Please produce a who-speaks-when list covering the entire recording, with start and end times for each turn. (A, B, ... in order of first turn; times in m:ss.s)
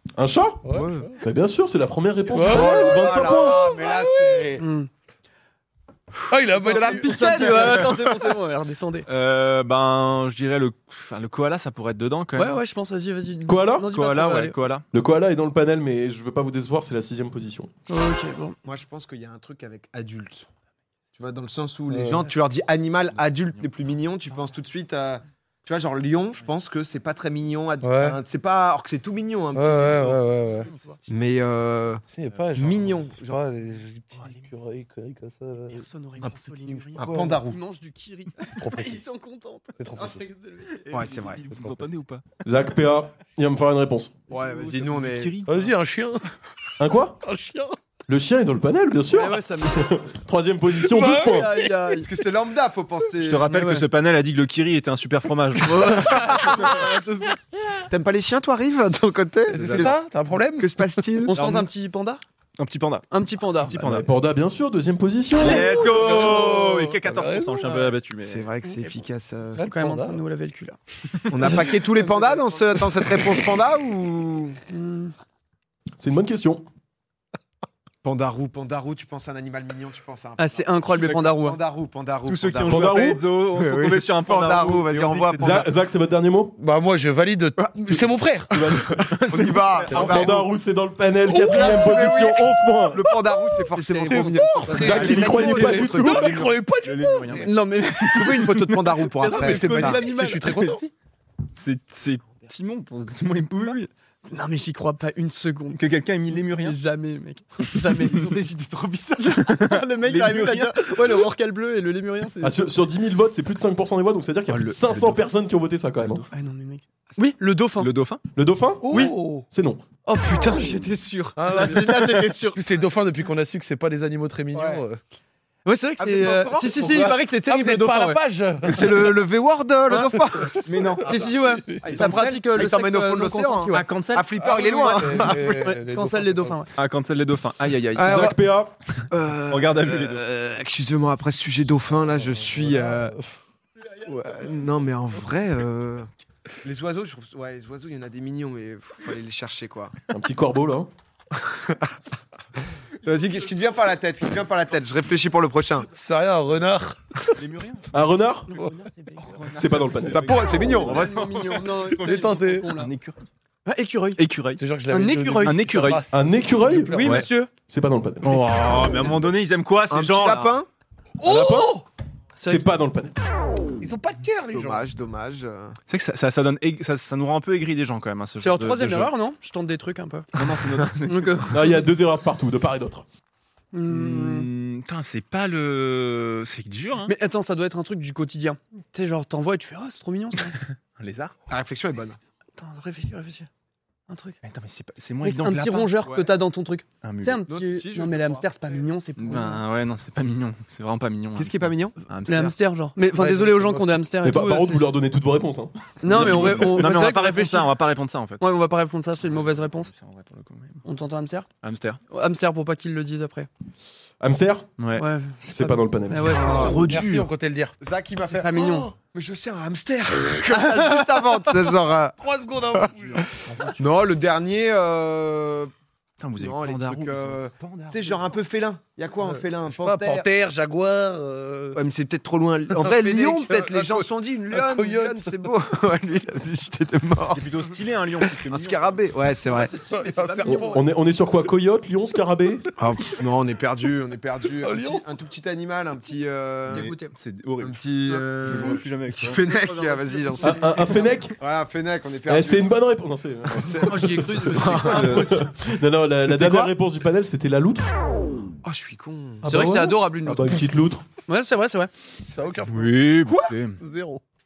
0:00.2-0:00.6 A
0:00.6-0:01.2 B
0:00.7-0:01.1 C
0:01.2-0:03.8 A
0:02.3-0:04.6 C
0:02.3-0:02.9 B
0:03.9-0:04.4 B
0:04.6-0:04.9 D
0:06.3-0:07.5 B
0:06.5-0:08.3 C
0:06.7-0:09.1 D
0:09.1-0:12.6 E
0:12.3-0:14.6 D
0:13.5-0:13.9 A
0:13.9-0:14.8 E
0:14.9-0:17.7 A
0:17.9-0:18.6 D
0:18.6-0:20.4 C
0:21.2-0:30.2 C
0:21.9-0:22.3 B
0:27.8-0:28.2 B
0:29.5-0:30.7 B
0:30.6-0:31.0 D
0:30.6-0:31.0 E
0:31.1-0:32.0 C
0:32.1-0:37.4 B
0:32.3-0:32.6 E
0:32.5-0:33.4 C
0:35.7-0:40.9 D
0:37.0-0:37.6 C
0:38.5-0:39.0 B
0:39.8-0:40.2 B
0:40.8-0:42.2 E
0:40.9-0:41.4 C
0:42.4-0:44.2 A
0:44.3-0:45.3 C
0:44.3-0:45.7 E
0:45.5-0:46.3 B
0:46.8-0:47.2 A
0:47.2-0:47.8 B
0:48.1-0:51.5 A
0:49.1-0:49.9 D
0:50.8-0:52.1 D
0:51.9-0:53.5 C
0:53.2-0:56.4 E
0:53.5-0:53.8 D
0:55.6-0:57.3 D
0:56.1-0:56.9 B
0:57.9-1:00.0 C
0:59.5-1:00.8 B
1:00.6-1:01.4 C
1:01.3-1:02.2 D
1:01.4-1:01.7 E
1:02.6-1:03.1 E
1:03.1-1:03.7 D
1:03.6-1:04.0 E
1:03.7-1:05.8 A
1:05.4-1:08.5 E
1:05.6-1:07.9 B
1:08.2-1:09.6 C
1:08.6-1:08.9 D
1:09.6-1:10.2 B
1:09.6-1:10.8 D
1:11.3-1:14.6 C
1:11.4-1:11.7 D
1:14.7-1:15.1 D
1:16.0-1:16.6 A
1:18.0-1:25.7 C
1:20.4-1:21.6 D
1:20.9-1:21.2 E
1:22.2-1:25.6 E
1:22.6-1:23.2 A
1:25.4-1:26.6 A
1:26.6-1:28.7 B
1:27.6-1:30.5 C
1:28.5-1:29.1 A
1:28.9-1:30.3 E
1:29.9-1:33.0 A
1:29.9-1:30.2 B
1:31.2-1:36.2 C
1:33.7-1:35.3 D
1:34.0-1:37.5 B
1:34.8-1:36.5 A
1:35.0-1:40.8 E
1:37.4-1:38.7 D
1:38.0-1:40.0 C
1:39.2-1:40.8 D
1:39.3-1:40.9 B
1:41.6-1:43.9 E
1:44.3-1:48.3 D
1:45.7-1:46.8 E
1:48.0-1:49.4 C
1:49.2-1:52.6 D
1:49.4-1:51.2 E
1:52.4-1:56.2 A
1:54.5-1:55.2 E
1:56.0-1:56.3 E
1:56.3-1:57.9 D
1:57.8-1:58.2 E
1:58.3-1:59.8 A
1:58.8-1:59.4 B
1:58.9-1:59.1 D
2:00.0-2:02.6 D
2:01.4-2:05.0 B
2:04.5-2:04.8 C
2:05.6-2:08.2 D
2:06.0-2:07.0 C
2:06.8-2:08.0 E
2:07.4-2:09.0 B
2:08.6-2:11.3 C
2:09.9-2:10.2 D
2:10.6-2:11.3 E
2:11.0-2:13.9 D
2:11.8-2:15.7 C
2:11.8-2:12.4 E
2:13.7-2:14.3 E
2:14.4-2:16.7 D
2:14.6-2:16.6 B
2:16.8-2:18.4 E
2:17.9-2:18.4 C
2:18.0-2:18.7 A
2:19.1-2:23.2 C
2:19.5-2:20.2 E
2:22.2-2:23.3 B
2:24.0-2:26.1 C
2:26.6-2:29.9 C
2:30.1-2:30.9 A
2:31.3-2:31.9 C
2:33.0-2:35.9 C
2:35.9-2:37.4 B
2:37.4-2:37.9 E
2:37.9-2:38.5 A
2:38.5-2:42.9 D
2:39.3-2:43.2 E
2:39.5-2:40.3 A
2:40.0-2:41.2 C
2:42.0-2:42.7 B
2:43.6-2:44.2 D
2:44.2-2:44.6 E
2:44.6-2:47.3 B
2:44.9-2:45.6 D
2:45.4-2:46.1 E
2:46.1-2:48.7 A
2:46.8-2:47.5 D
2:47.0-2:47.3 E
2:48.2-2:50.6 E
2:49.9-2:50.7 C
2:51.2-2:51.8 D
2:51.2-2:51.8 A
2:52.4-2:52.7 D
2:52.4-2:53.2 A
2:53.8-2:54.8 B
2:54.5-2:55.8 C
2:55.9-2:59.1 E
2:58.4-3:00.3 D
3:00.3-3:01.6 E
3:01.0-3:01.8 D
3:01.5-3:03.0 A
3:03.7-3:04.5 D
3:03.9-3:07.1 E
3:07.0-3:10.6 D
3:11.0-3:11.3 E
3:11.5-3:12.2 C
3:12.6-3:13.5 D
3:14.1-3:14.4 D
3:14.4-3:15.9 E
3:15.2-3:19.6 D
3:16.0-3:16.4 C
3:17.0-3:17.4 E
3:17.5-3:18.5 C
3:19.2-3:22.5 E
3:21.3-3:22.0 C
3:22.2-3:24.9 D
3:23.1-3:23.9 B
3:24.2-3:26.9 A
3:26.0-3:27.7 D
3:26.1-3:28.4 E
3:28.4-3:29.9 D
3:29.2-3:30.8 E
3:30.8-3:31.5 D
3:31.6-3:32.0 E
3:32.1-3:33.5 D
3:34.2-3:34.7 A
3:34.8-3:35.0 E
3:34.9-3:36.8 D
3:35.4-3:36.7 A
3:36.3-3:36.8 C
3:36.4-3:37.3 E
3:36.7-3:37.7 B
3:37.8-3:42.2 C
3:38.4-3:38.9 D
3:38.6-3:38.8 B
3:40.5-3:41.4 D
3:42.2-3:43.8 B
3:42.7-3:43.2 C
3:43.2-3:43.8 E
3:43.7-3:45.7 C
3:46.2-3:48.4 E
3:46.4-3:50.3 C
3:49.2-3:51.8 B
3:51.7-3:57.4 C
3:52.8-3:55.3 B
3:57.3-3:58.9 E
3:58.4-3:59.7 C
3:59.5-4:00.8 D
3:59.7-4:00.8 B
4:00.4-4:02.7 A
4:02.8-4:06.9 C
4:04.6-4:05.0 B
4:06.7-4:09.4 E
4:06.7-4:07.1 D
4:07.6-4:12.8 C
4:09.4-4:11.1 D
4:10.4-4:11.4 A
4:12.3-4:17.9 A
4:13.5-4:15.4 C
4:13.6-4:15.5 D
4:14.8-4:15.4 E
4:16.3-4:16.7 C
4:18.6-4:19.6 C
4:19.4-4:20.7 D
4:19.4-4:21.0 A
4:21.2-4:21.9 D
4:22.3-4:23.0 B
4:22.6-4:23.8 E
4:23.8-4:24.2 B